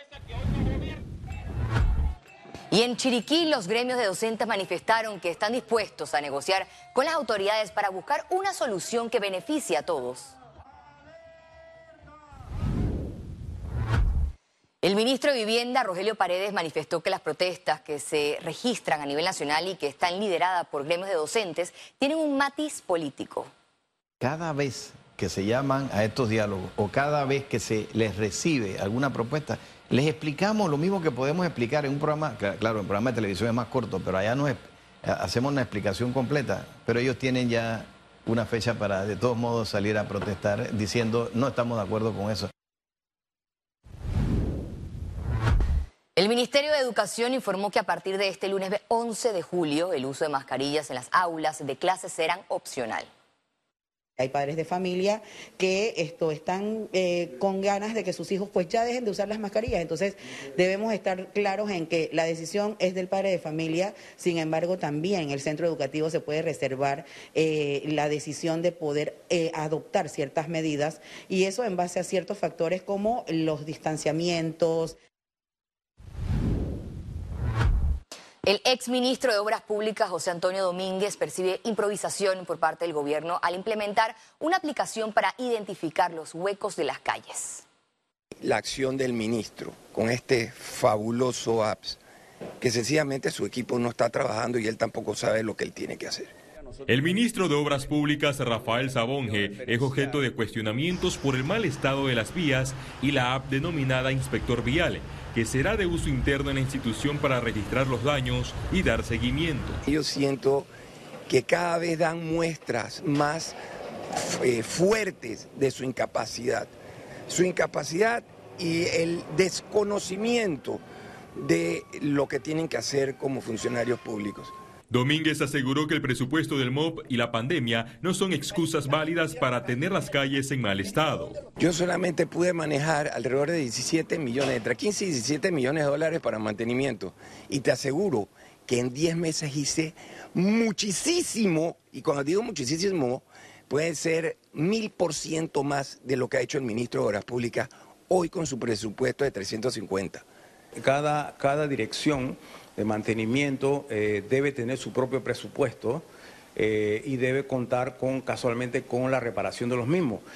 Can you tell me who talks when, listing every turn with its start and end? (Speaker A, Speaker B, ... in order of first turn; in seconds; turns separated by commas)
Speaker A: 2.7-10.3, Speaker A: 14.8-23.5, Speaker B: 24.2-42.5, Speaker A: 46.2-53.1, Speaker C: 54.2-75.0, Speaker A: 78.5-87.7, Speaker D: 88.4-92.0, Speaker D: 92.6-96.3, Speaker E: 96.9-109.8, Speaker D: 109.9-110.7, Speaker D: 111.3-113.6, Speaker D: 114.1-116.7, Speaker D: 117.3-120.8, Speaker D: 121.3-124.5, Speaker E: 124.9-131.4, Speaker D: 131.6-150.2, Speaker F: 150.8-160.2